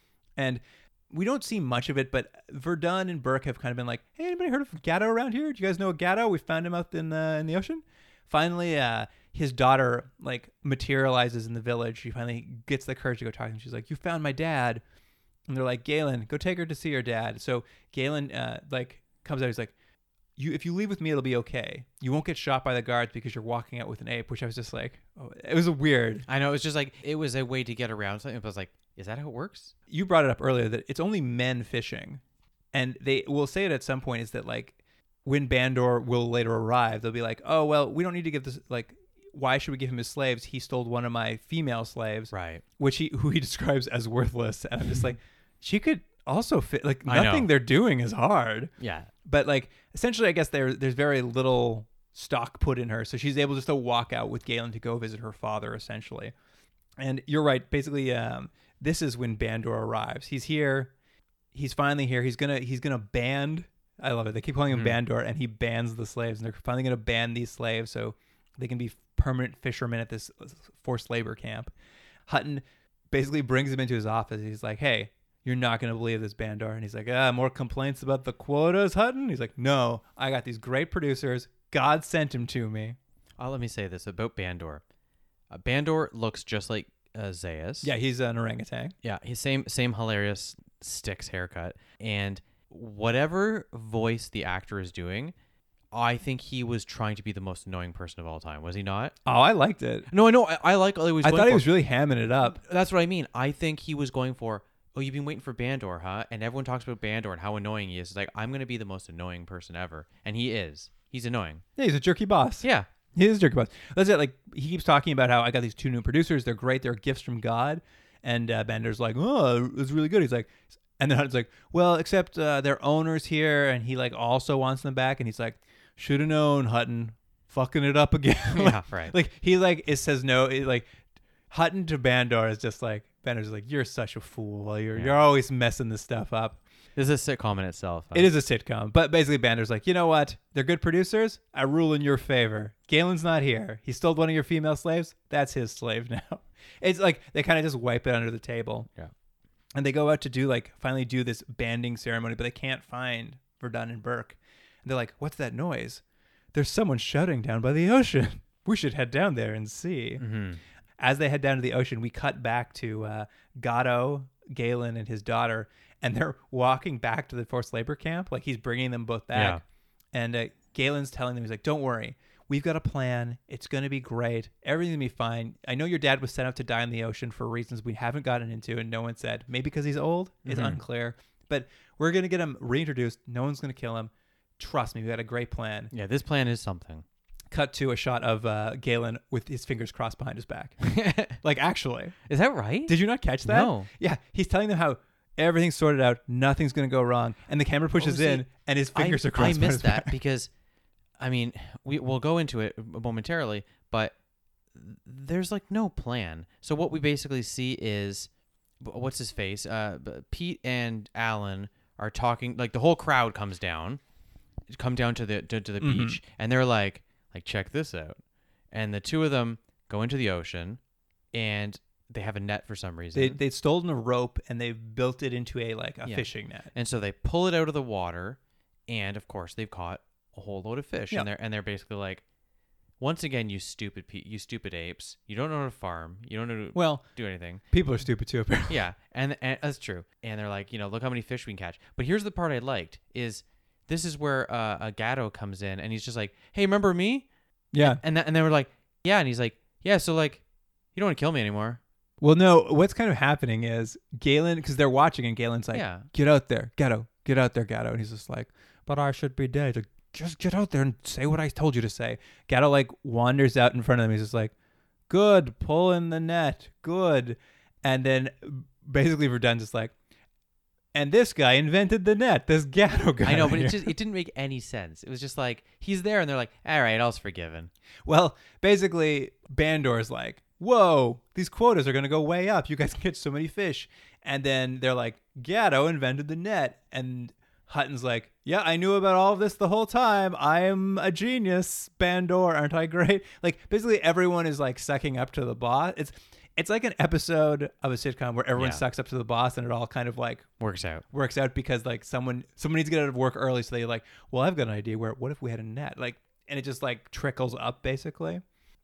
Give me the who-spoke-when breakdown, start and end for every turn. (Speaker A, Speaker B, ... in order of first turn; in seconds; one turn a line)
Speaker A: 0.4-14.8
Speaker A: 15.5-19.7
Speaker A: 20.4-26.2
Speaker B: 26.3-29.7
Speaker A: 29.9-32.2
Speaker A: 32.7-48.7
Speaker B: 42.3-42.6
Speaker B: 47.0-47.5
Speaker B: 48.8-49.1
Speaker A: 49.2-56.3
Speaker A: 57.0-60.9
Speaker A: 61.5-71.7
Speaker B: 64.7-65.0
Speaker A: 72.3-83.0
Speaker B: 83.4-84.8
Speaker B: 85.5-87.9
Speaker A: 87.8-88.9
Speaker B: 89.0-95.3
Speaker B: 95.9-99.2
Speaker A: 99.2-100.1
Speaker B: 100.1-101.7
Speaker A: 101.2-102.6
Speaker B: 102.4-111.6
Speaker A: 111.8-130.9
Speaker B: 112.6-112.9
Speaker B: 128.5-129.1
Speaker A: 131.5-136.6
Speaker B: 134.9-135.2
Speaker B: 136.9-138.3
Speaker A: 138.1-148.9
Speaker A: 149.7-156.0
Speaker A: 156.5-160.2
Speaker B: 160.2-160.6
Speaker A: 161.0-169.6
Speaker B: 169.3-169.6
Speaker A: 170.1-185.9
Speaker B: 180.4-180.8
Speaker B: 185.9-187.0
Speaker A: 187.5-192.2
Speaker B: 190.8-191.4
Speaker B: 192.2-193.9
Speaker A: 192.9-200.1
Speaker B: 198.0-200.5
Speaker B: 201.2-204.1
Speaker B: 204.7-214.0
Speaker B: 214.7-218.2
Speaker A: 215.8-216.2
Speaker B: 218.7-220.8
Speaker B: 221.3-223.4
Speaker A: 223.1-226.7
Speaker B: 226.0-232.2
Speaker B: 233.0-237.6
Speaker A: 236.7-237.0
Speaker A: 237.7-238.8
Speaker B: 238.7-247.3
Speaker A: 247.7-248.0
Speaker B: 247.8-250.4
Speaker B: 250.9-251.8
Speaker A: 252.2-264.5
Speaker B: 255.7-256.1
Speaker A: 265.1-269.9
Speaker A: 270.9-273.9
Speaker B: 273.2-277.7
Speaker A: 278.1-300.4
Speaker B: 298.6-298.8
Speaker B: 300.6-301.0
Speaker A: 301.1-308.4